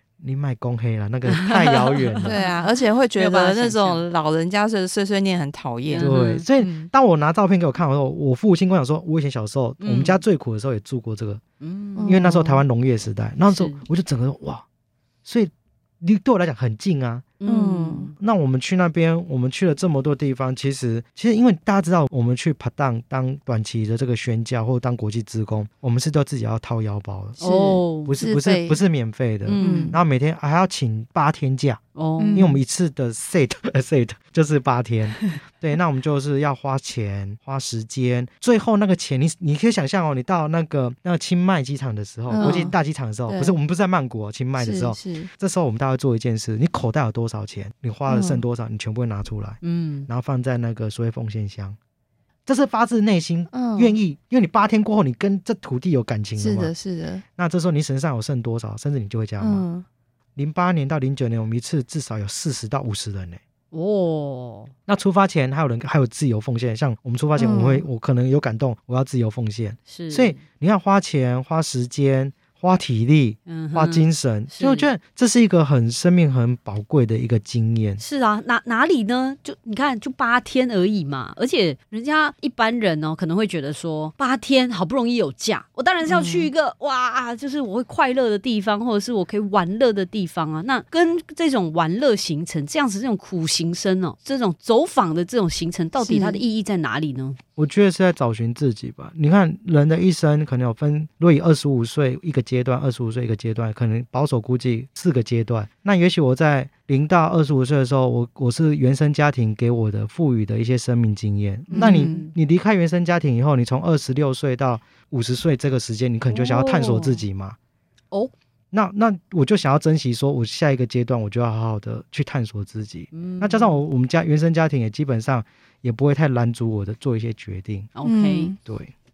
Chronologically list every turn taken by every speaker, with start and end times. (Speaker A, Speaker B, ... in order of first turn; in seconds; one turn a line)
Speaker A: 0.2-2.3
Speaker B: 1.3-4.0
Speaker C: 2.2-6.9
Speaker B: 5.9-6.4
Speaker A: 6.0-11.4
Speaker B: 9.8-10.2
Speaker B: 11.6-12.2
Speaker C: 12.0-12.6
Speaker A: 12.0-14.7
Speaker B: 13.5-13.8
Speaker A: 15.2-17.3
Speaker B: 17.4-18.1
Speaker C: 17.4-18.1
Speaker A: 18.1-27.4
Speaker C: 27.4-28.8
Speaker B: 27.4-28.1
Speaker A: 28.0-31.8
Speaker B: 29.4-30.0
Speaker C: 29.6-30.0
Speaker B: 31.9-32.4
Speaker C: 32.2-32.6
Speaker A: 32.3-51.8
Speaker C: 42.3-42.7
Speaker B: 42.4-42.7
Speaker C: 43.3-43.5
Speaker C: 44.6-45.3
Speaker C: 48.1-48.4
Speaker B: 49.6-50.1
Speaker A: 52.5-56.7
Speaker C: 53.5-54.0
Speaker C: 56.4-57.2
Speaker A: 57.4-59.6
Speaker C: 59.4-59.8
Speaker A: 60.4-63.4
Speaker B: 63.7-64.7
Speaker A: 64.9-78.0
Speaker C: 67.3-67.8
Speaker B: 69.9-70.4
Speaker B: 73.5-74.9
Speaker B: 78.0-97.4
Speaker C: 86.0-86.5
Speaker C: 96.0-96.4
Speaker A: 97.6-117.5
Speaker C: 111.7-112.2
Speaker B: 111.7-112.3
Speaker B: 116.3-117.2
Speaker A: 118.7-127.9
Speaker B: 123.1-123.8
Speaker B: 128.0-128.5
Speaker C: 128.0-128.6
Speaker A: 128.6-128.9